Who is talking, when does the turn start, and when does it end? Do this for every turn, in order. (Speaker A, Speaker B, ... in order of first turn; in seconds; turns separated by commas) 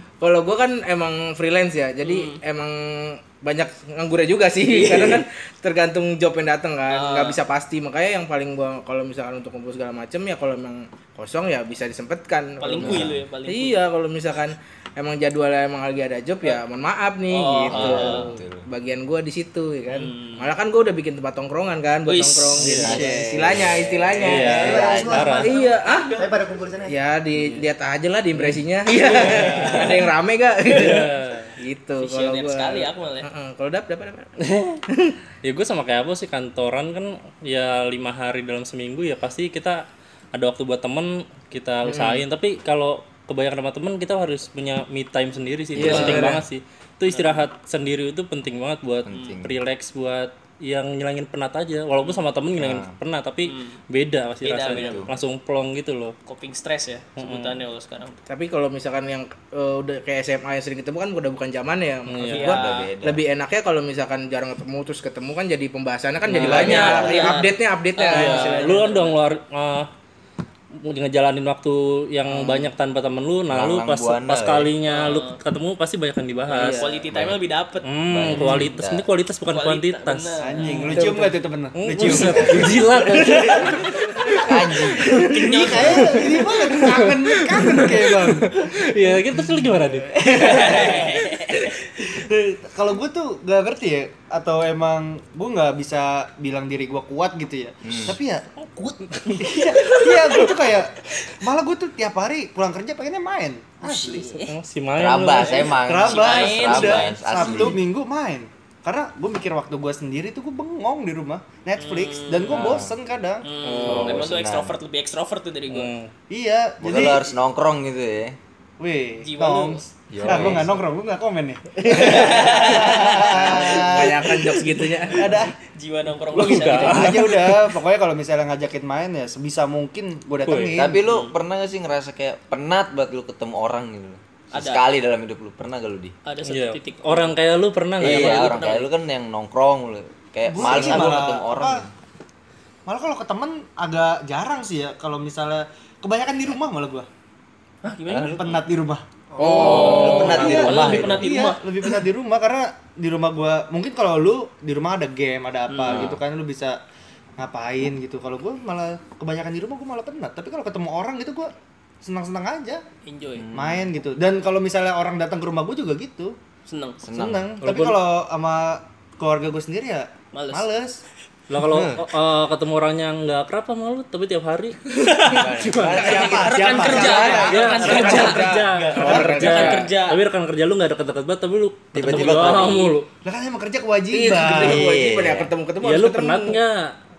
Speaker A: 0.2-26.2, Speaker B: 2.0-2.4, Speaker B: 4.7-5.2, Speaker B: 6.9-7.4, Speaker B: 12.6-13.8, Speaker C: 12.8-13.2, Speaker B: 17.3-18.2, Speaker C: 17.7-18.6, Speaker B: 19.9-20.5, Speaker B: 22.1-22.6, Speaker D: 22.6-23.1, Speaker C: 22.6-25.4, Speaker E: 22.8-23.6, Speaker D: 24.2-25.5, Speaker E: 24.3-25.5, Speaker B: 25.5-26.3, Speaker E: 26.2-26.9, Speaker A: 26.9-34.3, Speaker D: 28.3-28.6, Speaker B: 29.1-30.1, Speaker D: 29.4-29.9, Speaker D: 30.7-31.5, Speaker B: 32.0-33.3, Speaker D: 34.4-34.8, Speaker A: 34.9-35.2, Speaker D: 35.4-56.1, Speaker A: 41.9-42.2, Speaker C: 45.7-46.2, Speaker A: 45.8-46.4, Speaker B: 45.8-46.4, Speaker B: 47.1-47.4, Speaker C: 49.0-49.6, Speaker B: 49.1-49.4, Speaker C: 52.5-52.9, Speaker B: 53.5-53.8, Speaker B: 54.4-55.0, Speaker C: 54.7-55.1, Speaker B: 56.2-58.2, Speaker D: 57.2-57.5, Speaker A: 58.3-69.0, Speaker D: 62.1-62.5, Speaker B: 62.2-62.9, Speaker C: 62.4-63.2, Speaker D: 66.2-66.8, Speaker C: 66.4-67.5, Speaker B: 66.4-69.2, Speaker D: 68.1-69.9, Speaker D: 70.7-76.8, Speaker A: 72.3-72.7, Speaker C: 73.5-74.7, Speaker B: 74.8-75.4, Speaker B: 76.5-77.8, Speaker A: 76.5-77.0, Speaker C: 77.1-77.4, Speaker D: 77.8-81.0, Speaker C: 78.1-79.0, Speaker A: 78.3-78.7, Speaker B: 79.5-81.0, Speaker E: 80.4-88.7, Speaker A: 80.7-81.4, Speaker D: 81.8-84.0, Speaker A: 83.2-85.5, Speaker C: 84.4-86.1, Speaker B: 85.3-85.8, Speaker D: 85.7-90.2, Speaker E: 90.1-91.3, Speaker B: 90.2-91.7, Speaker A: 90.3-91.2, Speaker E: 92.0-98.4, Speaker C: 97.8-98.2, Speaker B: 98.6-101.3, Speaker E: 99.4-104.4, Speaker B: 103.8-104.5, Speaker D: 104.5-105.7, Speaker C: 104.9-107.8, Speaker E: 105.5-113.5, Speaker B: 106.0-107.7, Speaker B: 111.8-112.8, Speaker C: 112.5-113.0, Speaker B: 113.4-115.9, Speaker A: 113.6-114.0, Speaker D: 113.6-114.2, Speaker C: 113.8-114.8, Speaker D: 115.7-116.1, Speaker E: 116.3-117.3, Speaker C: 116.8-118.4, Speaker E: 118.8-125.5, Speaker B: 119.2-120.6, Speaker C: 120.1-120.7, Speaker A: 121.8-125.2, Speaker B: 121.9-124.0, Speaker B: 125.2-127.4, Speaker D: 126.3-127.6, Speaker E: 126.5-131.0, Speaker A: 126.7-127.0, Speaker D: 130.4-130.8, Speaker C: 130.7-136.1, Speaker B: 131.1-131.4, Speaker B: 134.5-134.8, Speaker B: 136.2-137.3, Speaker D: 136.4-138.6, Speaker B: 138.0-138.9, Speaker C: 138.0-141.9, Speaker E: 140.5-141.8, Speaker D: 140.6-141.2, Speaker E: 142.8-147.1, Speaker B: 147.8-148.6, Speaker C: 148.1-148.4, Speaker E: 148.3-156.8, Speaker A: 149.4-150.4, Speaker B: 149.4-152.0, Speaker C: 149.5-151.3, Speaker D: 149.6-151.2, Speaker B: 155.7-156.2, Speaker C: 155.8-156.2, Speaker E: 157.4-161.5, Speaker E: 162.0-162.8, Speaker B: 163.1-163.4, Speaker C: 163.3-163.9, Speaker E: 163.5-166.3, Speaker B: 166.7-167.0, Speaker C: 167.0-167.5, Speaker E: 167.1-171.0, Speaker D: 167.6-168.0, Speaker B: 170.3-170.7, Speaker D: 171.5-183.1, Speaker E: 171.6-172.0, Speaker C: 171.7-172.0, Speaker B: 175.0-175.6, Speaker C: 175.3-177.4, Speaker A: 176.0-176.3, Speaker E: 176.0-178.4, Speaker B: 176.1-180.2, Speaker A: 176.8-179.8, Speaker E: 179.0-179.3, Speaker C: 181.9-182.9, Speaker B: 182.0-182.9, Speaker E: 183.2-184.8, Speaker A: 184.1-186.6, Speaker C: 184.5-185.5, Speaker D: 185.8-186.9